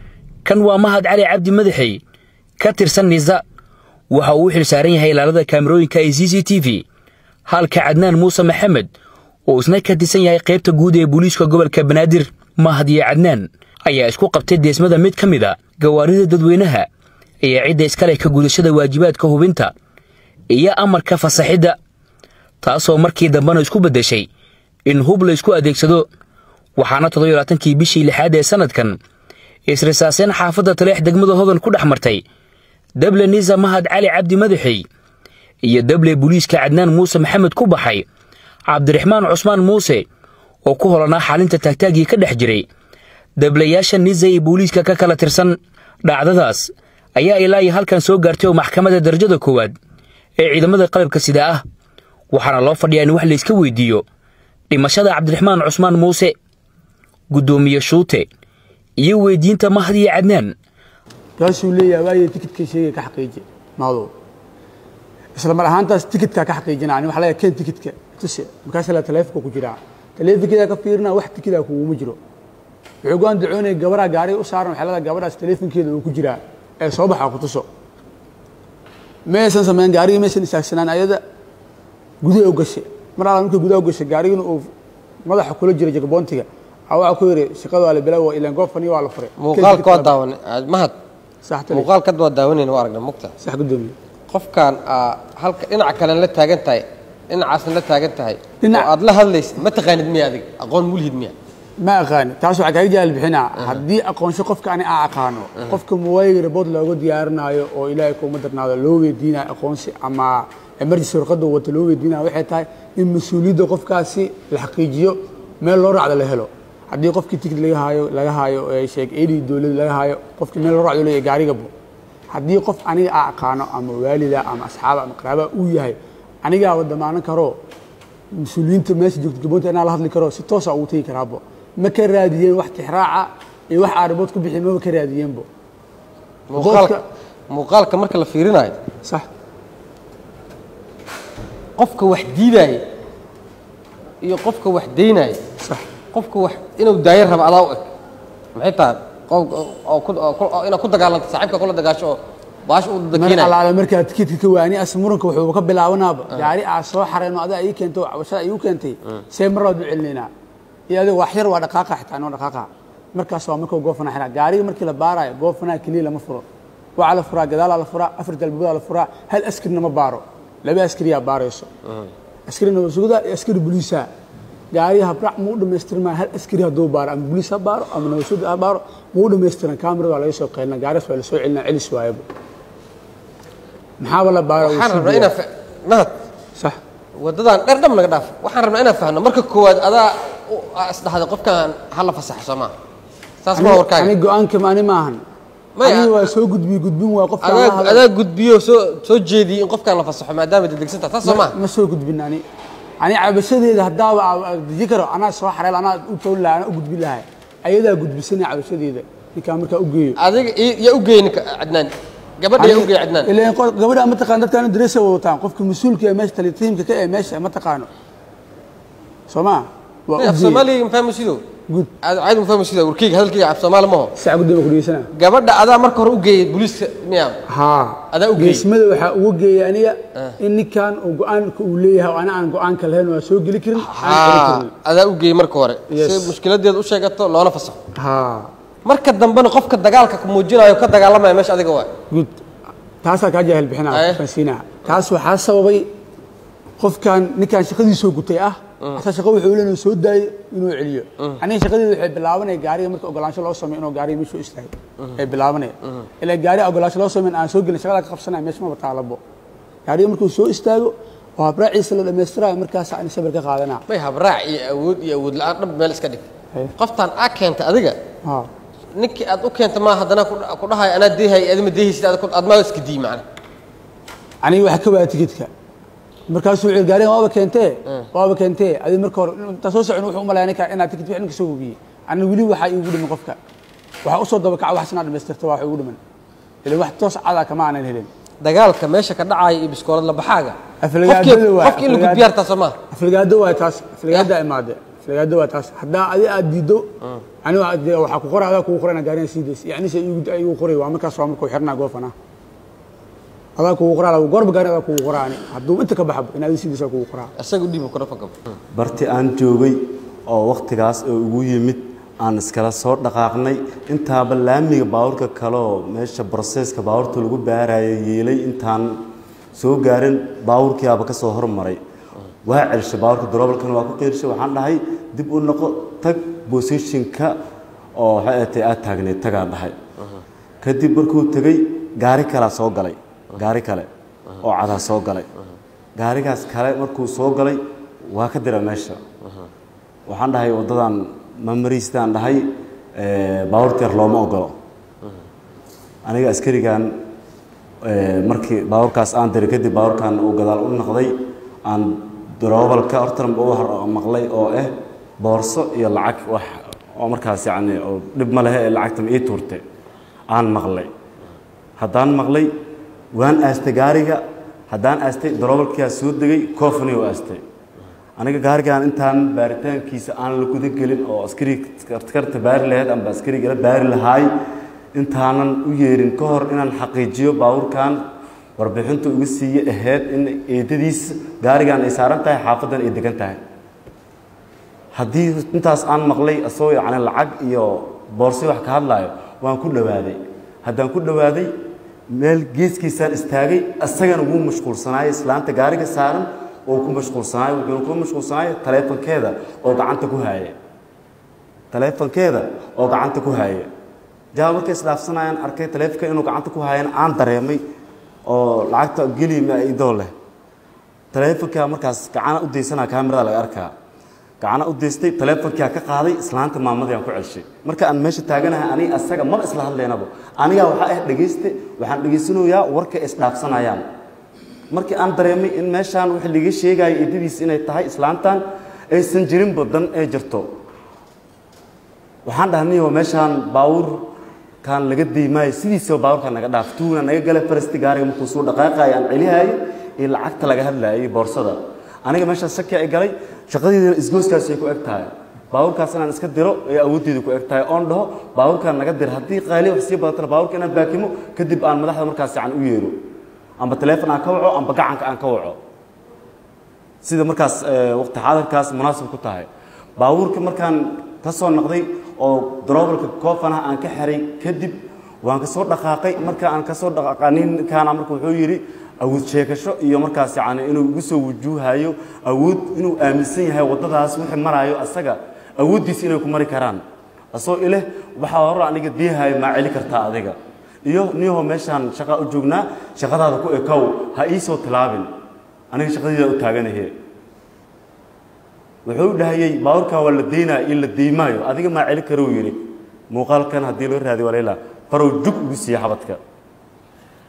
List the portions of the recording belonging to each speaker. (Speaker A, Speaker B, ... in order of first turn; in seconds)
Speaker A: 0.5-2.0, 2.6-3.4, 4.1-6.8, 7.5-8.9, 9.5-16.9, 17.4-19.7, 20.5-21.8, 22.6-24.3, 24.9-26.1, 26.8-29.0, 29.7-32.2, 33.0-34.9, 35.6-38.1, 38.7-40.0, 40.7-42.7, 43.4-49.8, 50.4-51.6, 52.3-54.0, 54.7-56.4, 57.3-58.3, 59.0-60.5
Speaker B: 61.4-64.1, 65.4-72.2, 73.0-77.7, 79.3-81.2, 82.2-84.7, 85.3-90.2, 91.5-91.9, 93.4-94.0, 98.6-98.9, 101.8-121.7, 122.3-127.6, 128.3-135.5, 136.5-137.0, 153.1-160.3, 160.9-166.4, 167.0-171.7, 172.5-174.1, 174.7-182.2, 184.0-185.3, 193.6-195.2, 195.8-198.1, 201.2-202.4, 203.0-210.2, 212.6-217.9, 219.3-220.6, 224.2-225.1, 227.5-234.7, 235.9-236.3, 238.0-238.5, 242.1-242.4, 243.0-245.9, 246.8-259.2, 259.9-263.8, 274.4-275.5, 276.3-283.4, 284.1-286.0, 286.6-288.1, 290.8-292.3, 292.9-296.9, 297.4-302.1, 303.6-307.3
Speaker C: 89.4-91.0, 91.7-93.3, 94.3-101.3, 136.5-138.8, 141.8-142.8, 144.2-145.4, 146.1-147.9, 148.6-153.5, 184.6-186.1, 187.2-192.7, 193.4-194.1, 195.8-196.2, 197.4-201.6, 210.2-213.3, 220.2-221.4, 222.0-224.1, 225.2-227.4, 228.1-228.7, 233.8-237.8, 238.8-241.9, 243.9-244.2, 263.9-268.0, 269.0-273.3, 288.4-292.8, 307.4-308.6
Speaker D: 308.7-319.0, 319.6-321.8, 322.5-327.3, 328.0-329.8, 330.6-333.9, 334.4-335.3, 336.0-339.0, 340.1-344.6, 346.1-346.9, 347.8-359.6, 360.3-360.9, 361.8-362.5, 363.1-367.4, 368.2-374.3, 374.9-378.0, 378.6-383.4, 385.0-391.5, 392.1-400.6, 401.7-403.7, 404.3-407.6, 408.3-410.1, 411.1-413.7, 414.4-423.9, 424.7-430.5, 432.3-434.1, 434.6-453.0, 453.6-455.6, 457.0-476.8, 477.3-485.1, 485.7-486.9, 488.9-496.2